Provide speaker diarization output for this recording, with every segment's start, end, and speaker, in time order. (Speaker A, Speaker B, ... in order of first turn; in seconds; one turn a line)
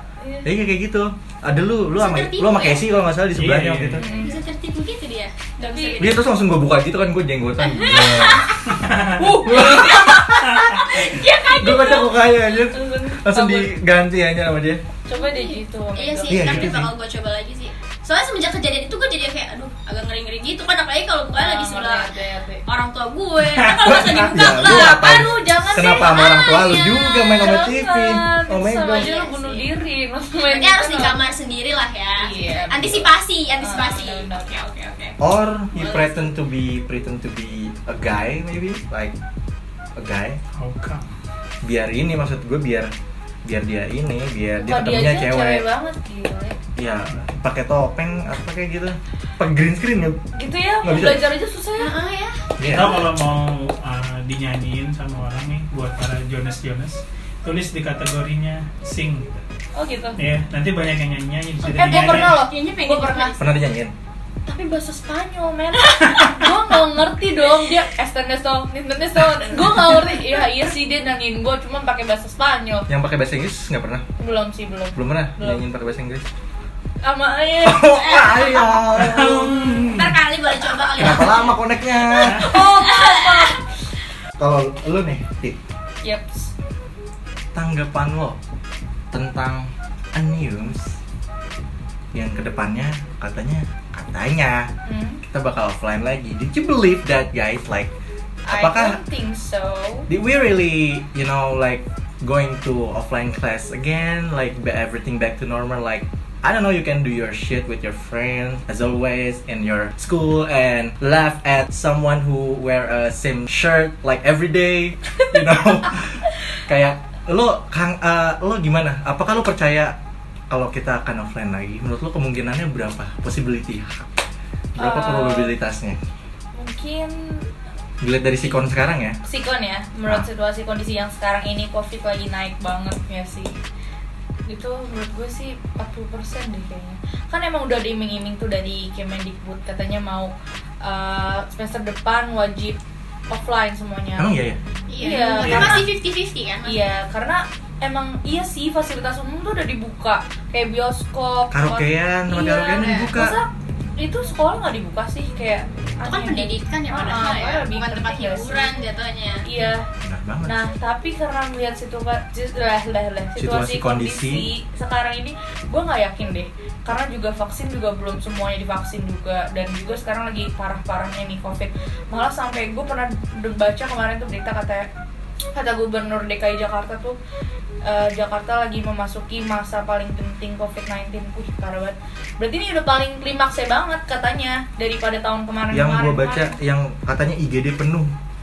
Speaker A: 0.2-0.5
Speaker B: 0.4-4.0
Speaker C: 1.9-2.9
Speaker D: 3.3-4.1
Speaker A: 4.0-4.4
Speaker C: 4.1-6.2
Speaker A: 5.6-6.1
Speaker B: 6.0-8.5
Speaker C: 7.6-8.6
Speaker D: 8.6-9.3
Speaker B: 9.2-10.6
Speaker A: 9.2-10.2
Speaker C: 9.6-12.1
Speaker D: 10.4-10.8
Speaker B: 11.5-14.8
Speaker A: 12.7-13.7
Speaker A: 15.1-16.5
Speaker C: 15.1-22.1
Speaker B: 16.3-16.9
Speaker D: 16.5-16.7
Speaker A: 21.4-22.6
Speaker C: 22.6-25.1
Speaker D: 23.4-24.3
Speaker B: 23.8-29.1
Speaker A: 24.3-31.2
Speaker C: 25.9-27.6
Speaker C: 28.8-29.7
Speaker C: 30.4-35.2
Speaker A: 32.2-33.1
Speaker A: 33.6-34.5
Speaker B: 35.2-39.1
Speaker C: 35.8-36.2
Speaker B: 40.0-40.4
Speaker D: 40.5-41.1
Speaker B: 41.6-42.9
Speaker B: 43.4-45.6
Speaker A: 44.6-46.6
Speaker B: 46.8-50.2
Speaker A: 50.3-51.9
Speaker B: 50.8-51.3
Speaker C: 51.8-52.5
Speaker B: 52.6-53.0
Speaker D: 52.6-59.4
Speaker A: 59.7-60.2
Speaker D: 60.2-62.3
Speaker A: 61.6-63.4
Speaker C: 61.7-63.4
Speaker B: 63.4-63.9
Speaker A: 64.5-72.9
Speaker B: 72.9-74.0
Speaker A: 74.2-75.6
Speaker B: 75.0-76.3
Speaker A: 77.0-78.9
Speaker B: 77.6-79.5
Speaker D: 78.9-80.2
Speaker C: 79.7-81.6
Speaker B: 80.9-82.5
Speaker A: 82.1-83.6
Speaker C: 82.4-83.6
Speaker B: 84.4-85.6
Speaker A: 86.0-86.5
Speaker B: 87.5-88.4
Speaker B: 89.1-91.0
Speaker B: 92.1-94.7
Speaker A: 94.8-95.2
Speaker B: 95.2-97.9
Speaker A: 98.5-100.1
Speaker B: 98.5-99.0
Speaker B: 100.1-120.0
Speaker B: 120.5-124.1
Speaker B: 124.8-126.0
Speaker A: 124.8-125.5
Speaker A: 126.5-127.5
Speaker B: 128.0-129.2
Speaker A: 129.2-133.6
Speaker A: 134.5-144.3
Speaker B: 144.2-144.6
Speaker C: 144.9-146.8
Speaker A: 145.0-145.8
Speaker B: 145.4-145.8
Speaker D: 145.4-145.8
Speaker A: 146.6-158.7
Speaker B: 151.5-153.4
Speaker C: 152.6-153.1
Speaker C: 156.0-159.4
Speaker A: 159.4-159.8
Speaker B: 160.0-160.6
Speaker A: 160.4-174.9
Speaker B: 163.4-164.5
Speaker A: 175.5-177.2
Speaker A: 177.8-186.5
Speaker B: 185.7-188.1